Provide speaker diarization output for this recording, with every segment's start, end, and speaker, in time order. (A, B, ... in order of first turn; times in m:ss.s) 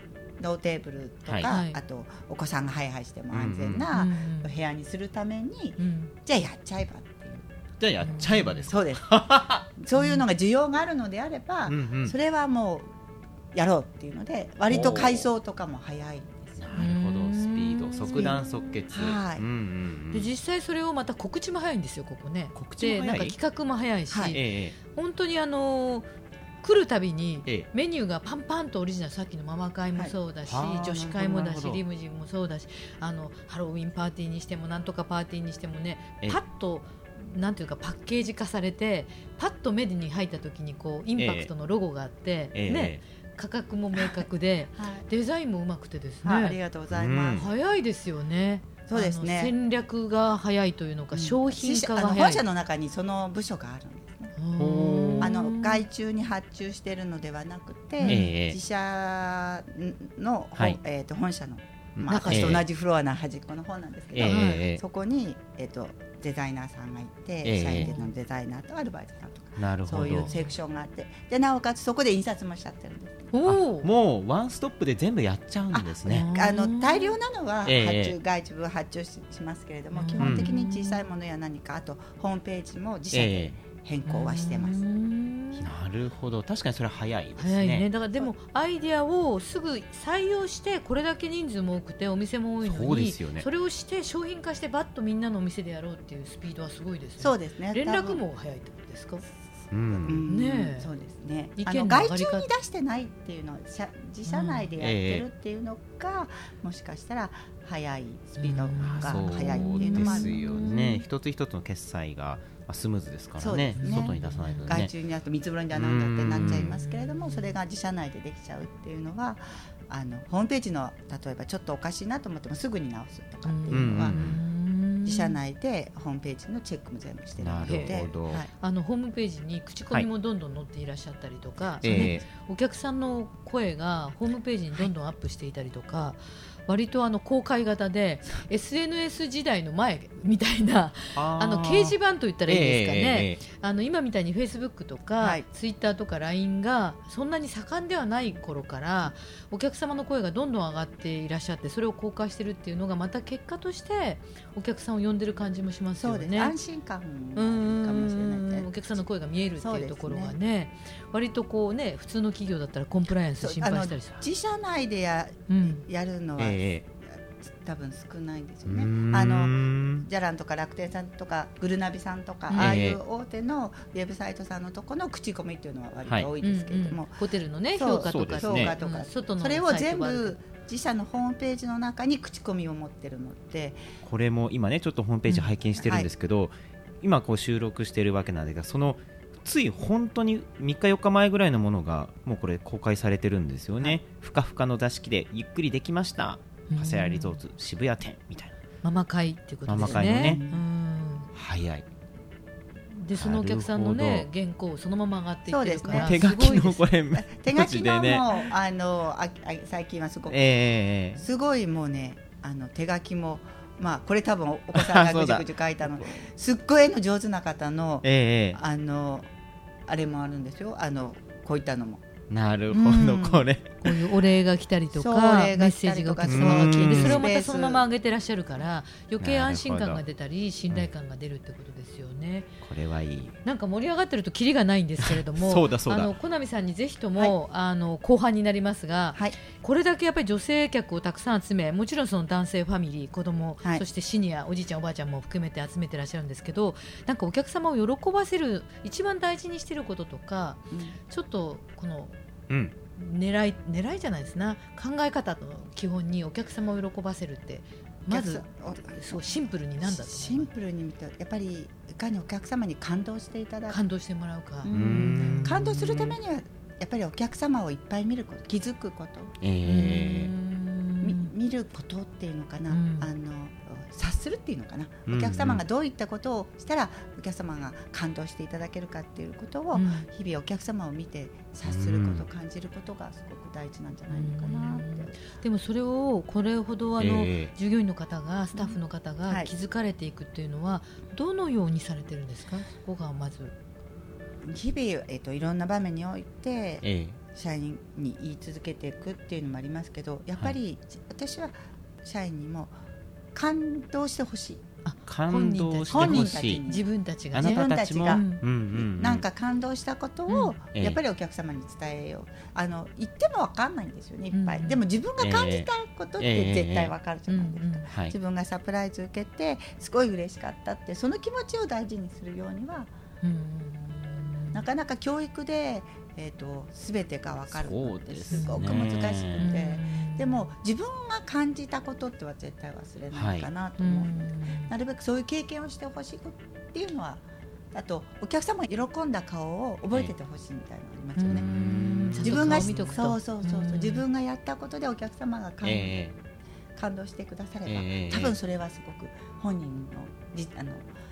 0:00.4-0:07.5 A
0:01.4-0:01.8 B
0:03.3-0:03.9 C
0:03.9-0:04.5 B
0:05.8-0:06.1 B
0:07.8-0:09.6 C
0:08.0-0:08.7 B
0:08.7-0:12.9 A
0:10.0-0:10.2 B
0:11.7-0:12.1 C
0:13.5-0:16.6 A
0:14.7-0:15.3 C
0:16.6-0:20.3 C
0:16.7-0:18.8 B
0:18.9-0:19.4 A
0:20.1-0:26.1 B
0:22.5-0:23.4 C
0:24.1-0:24.4 A
0:24.3-0:24.8 C
0:26.6-0:46.6 B
0:30.4-0:31.8 C
0:41.2-0:41.5 C
0:42.5-0:43.0 C
0:43.9-0:44.2 A
0:44.8-0:45.0 A
0:46.2-0:47.5 A
0:46.9-0:47.5 C
0:47.3-0:52.4 B
0:48.9-0:49.5 A
0:51.1-0:54.3 A
0:54.4-0:55.8 B
0:54.6-0:55.3 C
0:55.2-1:13.3 A
0:58.0-0:58.3 B
0:58.0-0:58.6 C
1:02.0-1:02.6 C
1:02.1-1:02.6 B
1:04.1-1:04.8 C
1:04.2-1:04.6 B
1:07.4-1:07.9 C
1:07.8-1:08.1 B
1:09.6-1:10.3 C
1:10.1-1:10.5 B
1:13.3-1:13.9 B
1:13.4-1:16.3 C
1:15.7-1:24.8 A
1:16.0-1:17.2 B
1:17.6-1:18.2 C
1:19.9-1:21.0 B
1:20.2-1:20.5 C
1:23.1-1:23.5 C
1:24.0-1:25.7 B
1:25.5-1:27.9 C
1:27.4-1:39.2 B
1:32.6-1:33.4 C
1:37.2-1:38.2 A
1:39.7-1:40.2 C
1:40.0-1:50.3 A
1:40.2-1:40.9 B
1:41.6-1:42.5 B
1:44.2-1:44.7 B
1:44.8-1:45.2 C
1:48.4-1:51.0 B
1:48.8-1:54.9 C
1:53.4-2:04.2 A
1:53.8-1:54.8 B
1:55.7-1:56.8 C
1:56.4-1:57.5 B
2:03.4-2:05.4 B
2:03.7-2:04.4 C
2:05.0-2:08.5 A
2:07.4-2:08.4 C
2:07.6-2:36.6 B
2:11.8-2:12.2 C
2:11.8-2:12.1 A
2:21.2-2:23.4 C
2:25.2-2:25.4 A
2:36.0-2:38.7 A
2:37.4-2:44.2 B
2:39.6-2:40.4 A
2:43.4-2:57.2 A
2:45.5-2:45.8 B
2:46.4-2:46.8 C
2:48.6-2:50.1 C
2:52.5-2:52.8 B
2:52.6-2:53.0 C
2:56.4-3:00.4 B
2:57.7-3:03.8 A
2:58.0-2:58.7 C
3:04.0-3:18.6 C
3:05.3-3:05.5 B
3:05.7-3:06.1 A
3:16.7-3:17.4 B
3:18.8-3:21.3 B
3:19.7-3:20.4 C
3:19.8-3:20.6 A
3:21.3-3:21.8 C
3:22.9-3:26.9 B
3:23.1-3:24.3 C
3:25.5-3:26.2 A
3:25.9-3:28.3 C
3:27.1-3:30.4 A
3:30.3-3:31.2 C
3:31.2-3:39.3 A
3:34.7-3:36.2 C
3:38.0-3:38.6 C
3:39.9-3:42.0 A
3:42.3-3:43.8 C
3:42.7-3:43.5 A
3:43.8-3:52.5 B
3:44.9-3:47.8 A
3:46.2-3:47.3 C
3:49.2-3:50.0 C
3:52.6-3:53.4 C
3:53.4-4:12.2 B
3:55.0-3:56.1 C
4:12.5-4:12.7 C
4:12.9-4:20.5 B
4:18.1-4:23.8 A
4:23.7-4:25.5 B
4:24.6-4:29.3 A
4:24.7-4:26.2 C
4:29.4-4:30.3 C
4:29.6-4:31.3 B
4:31.0-4:45.2 A
4:32.7-4:33.1 B
4:35.1-4:35.6 C
4:39.7-4:40.1 B
4:41.6-4:42.3 C
4:44.1-4:53.5 B
4:47.0-4:47.5 C
4:54.4-5:02.7 A
4:56.8-4:57.2 C
5:03.3-5:04.6 A
5:04.8-5:08.4 B
5:05.1-5:06.6 C
5:05.9-5:06.9 A
5:07.3-5:09.2 C
5:07.4-5:22.9 A
5:10.3-5:10.5 B
5:14.3-5:14.8 B
5:15.2-5:16.9 C
5:17.3-5:17.9 B
5:17.9-5:18.1 C
5:23.2-5:24.6 B
5:24.5-5:41.6 A
5:27.5-5:29.5 C
5:28.3-5:28.7 B
5:29.4-5:30.5 B
5:33.1-5:33.5 C
5:33.8-5:34.7 B
5:41.2-5:44.0 B
5:41.2-5:42.9 C
5:42.2-5:45.9 A
5:45.6-5:46.1 C
5:46.7-5:50.9 A
5:47.6-5:48.3 C